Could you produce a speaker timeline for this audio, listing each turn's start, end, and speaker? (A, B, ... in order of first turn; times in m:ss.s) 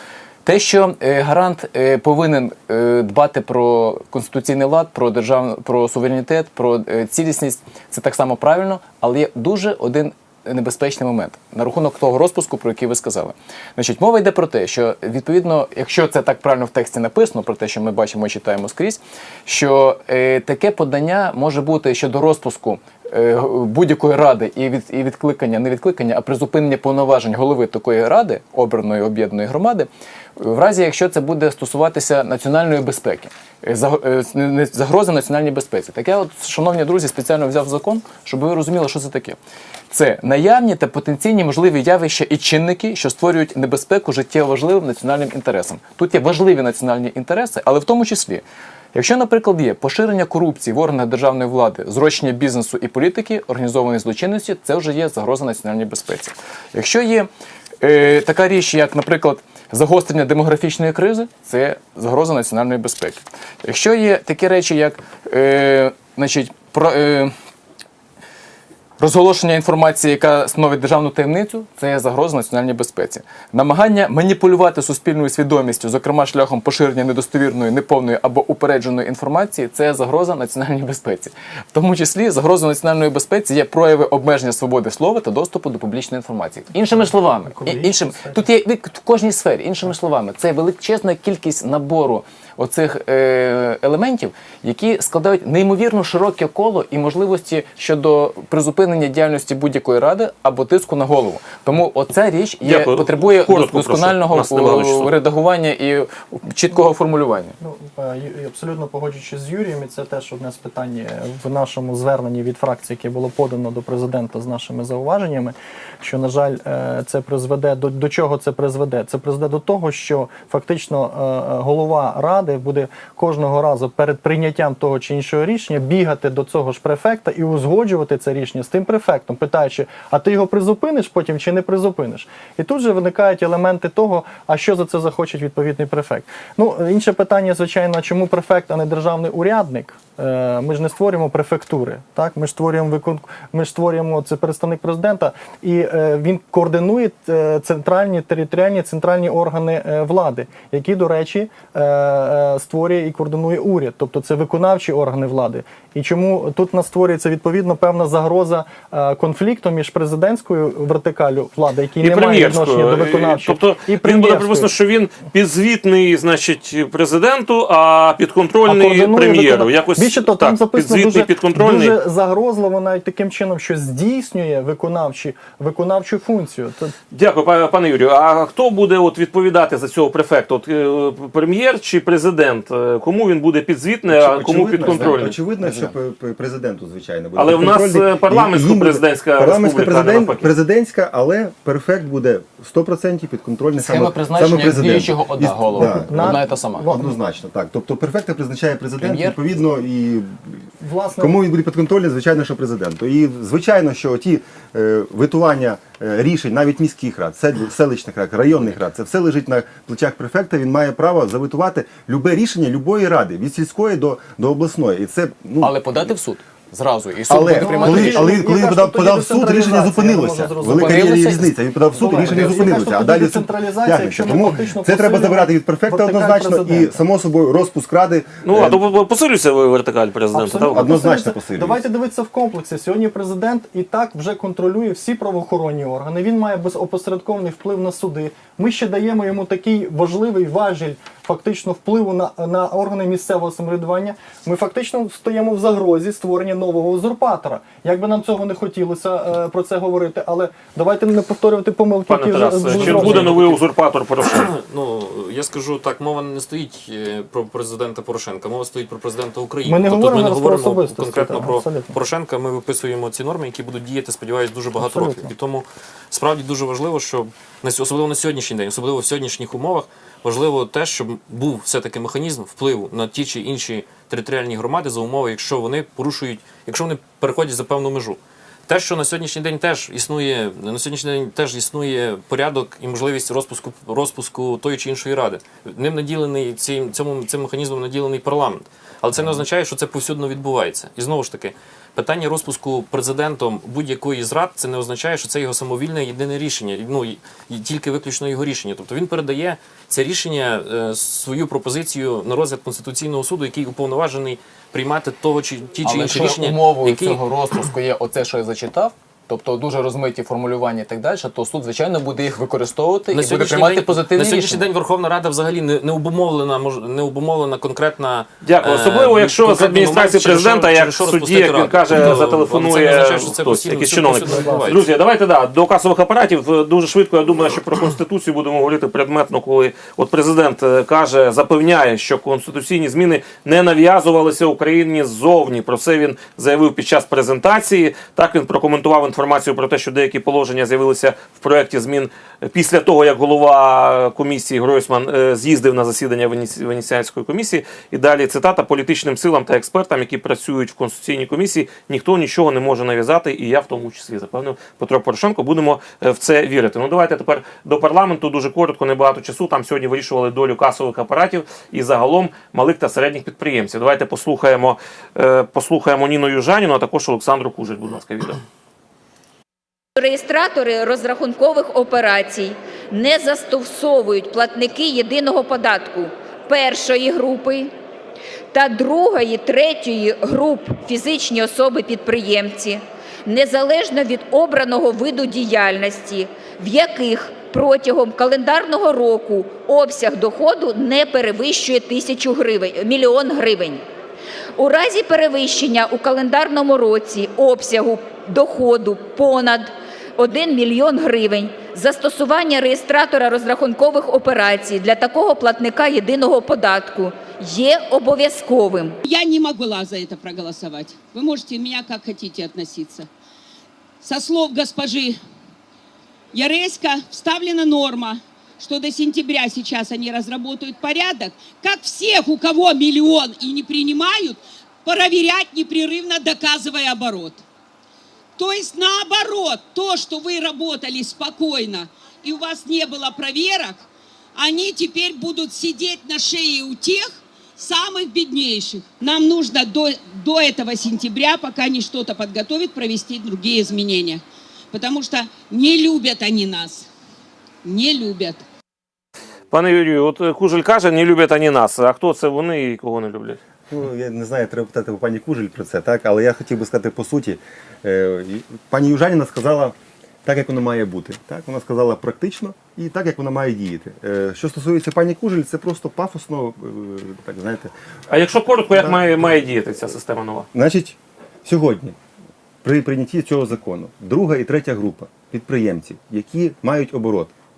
0:00.4-0:39.4 A
0:39.9-0:57.3 A
0:57.8-1:07.3 A
1:09.0-1:47.5 A
1:27.0-1:28.4 B
1:42.6-1:45.1 C
1:47.6-2:44.8 B
2:42.0-2:52.0 C
2:48.7-2:56.9 B
2:57.1-3:05.4 C
3:04.1-3:20.6 D
3:04.8-3:05.9 A
3:07.4-3:10.5 C
3:13.8-3:16.9 A
3:15.8-3:17.1 B
3:19.0-3:19.4 A
3:20.8-3:21.4 B
3:21.2-3:36.1 D
3:35.6-3:38.3 A
3:37.3-3:48.8 D
3:37.5-3:40.9 B
3:40.7-3:41.5 A
3:42.0-3:47.0 B
3:48.4-3:50.8 C
3:50.3-4:13.6 B
3:50.7-3:51.8 D
4:12.1-4:14.5 C
4:12.7-4:13.2 E
4:14.3-5:07.2 E
4:19.6-4:22.0 B
4:24.7-4:25.4 B
5:05.8-5:14.7 A
5:13.1-5:24.9 E
5:18.4-6:08.4 C
6:10.0-6:17.7 F
6:18.5-6:33.8 F
6:34.6-6:49.0 F
6:49.1-6:53.1 G
6:54.0-6:55.2 G
6:56.3-7:07.4 G
7:08.4-7:13.8 G
7:14.4-7:26.9 G
7:27.6-7:28.4 G
7:29.5-7:33.4 C
7:33.7-7:47.7 D
7:48.1-7:50.5 C
7:48.7-7:49.0 D
7:50.5-7:52.0 D
7:52.6-7:57.3 D